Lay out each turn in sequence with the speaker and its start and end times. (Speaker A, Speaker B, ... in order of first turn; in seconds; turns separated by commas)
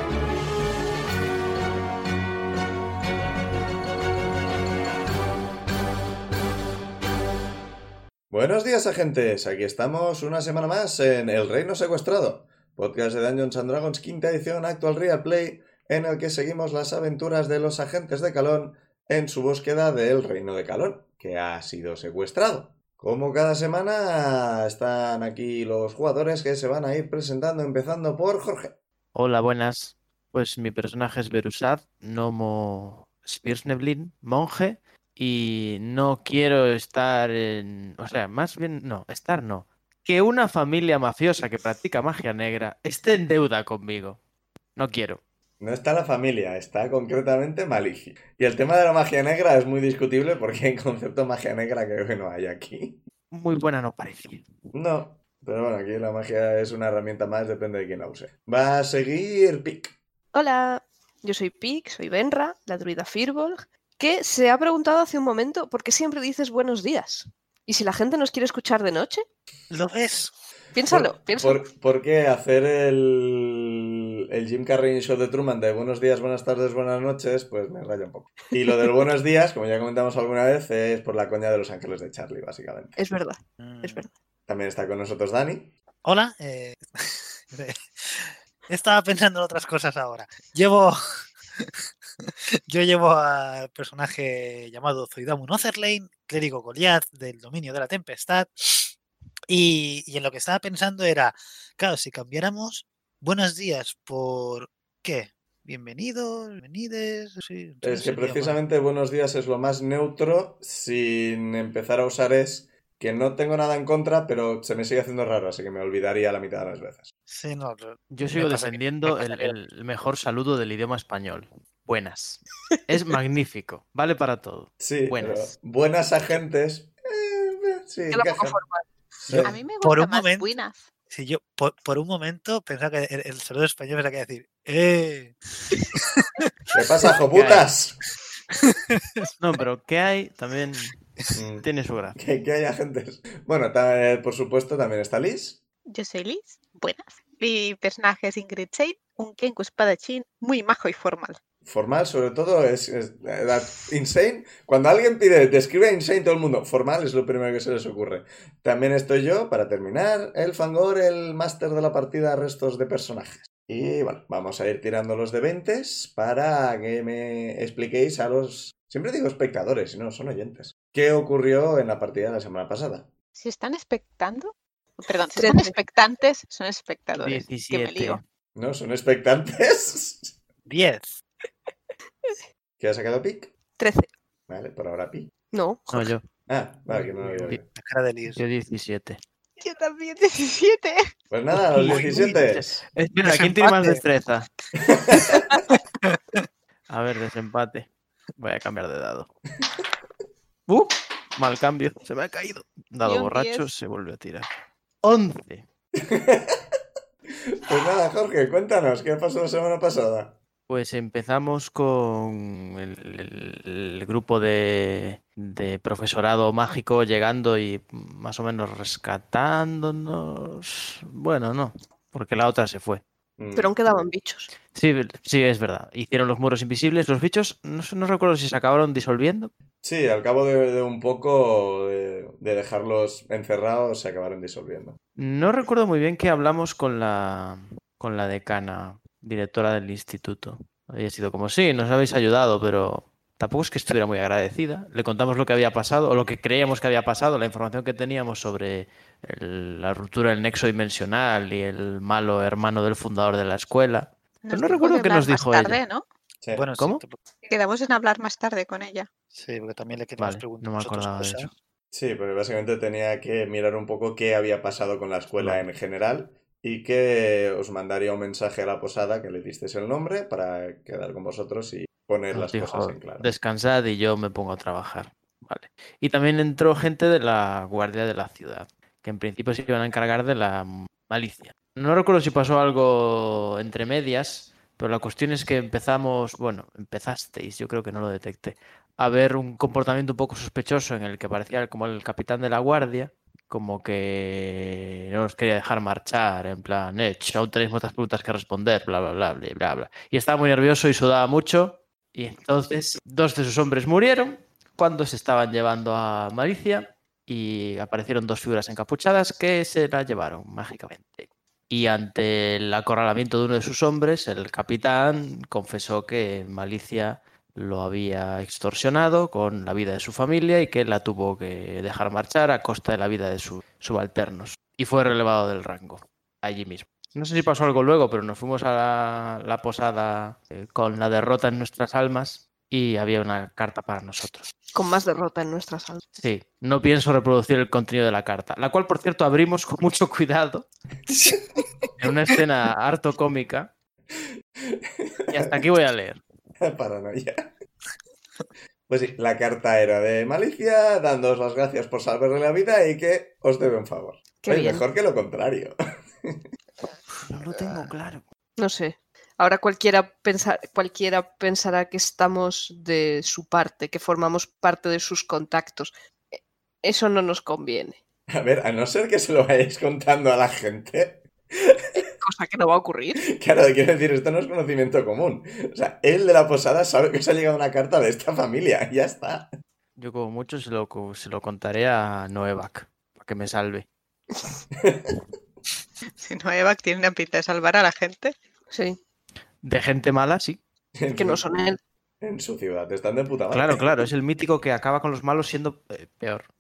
Speaker A: 8.3-28.8, Speaker B: 29.1-44.2, Speaker B: 44.8-45.2, Speaker A: 45.6-53.0, Speaker B: 53.3-54.5, Speaker A: 54.7-60.0, Speaker C: 60.3-69.2, Speaker D: 69.7-70.3, Speaker C: 70.8-71.7, Speaker A: 70.9-83.0, Speaker C: 83.0-84.1, Speaker D: 83.6-84.0, Speaker A: 84.5-85.7, Speaker D: 86.0-91.0, Speaker D: 91.6-98.8, Speaker D: 99.5-108.6, Speaker A: 107.8-117.1, Speaker D: 117.3-119.5, Speaker B: 118.1-125.5, Speaker A: 124.8-128.6, Speaker C: 128.1-128.8, Speaker A: 129.3-129.6, Speaker D: 129.3-130.5, Speaker E: 129.4-130.8, Speaker D: 131.1-135.4, Speaker D: 135.9-136.4, Speaker A: 136.7-138.0, Speaker B: 137.3-137.7, Speaker D: 138.6-139.3, Speaker B: 139.4-140.9, Speaker A: 141.3-141.7, Speaker B: 141.6-142.2, Speaker A: 142.2-145.6, Speaker E: 145.9-151.4, Speaker A: 151.6-173.1, Speaker E: 173.4-178.2, Speaker C: 175.4-175.8, Speaker B: 177.2-178.2, Speaker A: 178.6-180.3, Speaker D: 180.7-181.2, Speaker A: 182.8-183.5, Speaker C: 183.8-184.1, Speaker A: 184.5-185.3, Speaker C: 185.5-186.1, Speaker B: 185.9-186.2, Speaker A: 186.5-187.7, Speaker D: 186.9-188.4, Speaker B: 188.3-189.2, Speaker E: 189.6-191.1, Speaker A: 191.3-192.7, Speaker B: 191.5-194.5, Speaker D: 193.3-194.0, Speaker A: 194.8-195.4, Speaker D: 195.7-196.4, Speaker B: 196.9-199.3, Speaker B: 200.7-204.5, Speaker E: 203.0-203.7, Speaker B: 205.0-205.7, Speaker A: 206.0-206.8, Speaker A: 207.5-210.4, Speaker B: 210.7-223.0, Speaker A: 223.4-223.8, Speaker C: 223.6-224.5, Speaker B: 224.7-229.5, Speaker A: 229.8-235.0, Speaker B: 235.2-255.8, Speaker E: 254.4-256.0, Speaker D: 256.5-257.2, Speaker E: 257.5-259.1, Speaker D: 259.3-261.5, Speaker B: 260.2-261.5, Speaker A: 261.9-273.3, Speaker B: 265.4-265.6, Speaker B: 272.3-334.5, Speaker C: 334.7-336.0, Speaker B: 336.2-340.7, Speaker D: 341.1-341.4, Speaker B: 342.0-343.7, Speaker A: 344.6-345.6, Speaker B: 345.3-346.2, Speaker A: 346.6-347.5, Speaker A: 348.9-356.4, Speaker C: 354.4-354.8, Speaker B: 357.3-358.2, Speaker C: 358.6-368.0, Speaker A: 368.3-372.0, Speaker C: 372.0-373.2, Speaker A: 373.3-379.5, Speaker B: 380.0-383.9, Speaker A: 384.8-385.2, Speaker E: 386.2-388.4, Speaker C: 388.7-389.0, Speaker B: 389.6-390.6, Speaker A: 391.0-391.4, Speaker C: 391.1-391.8, Speaker A: 392.2-394.1, Speaker B: 393.5-396.5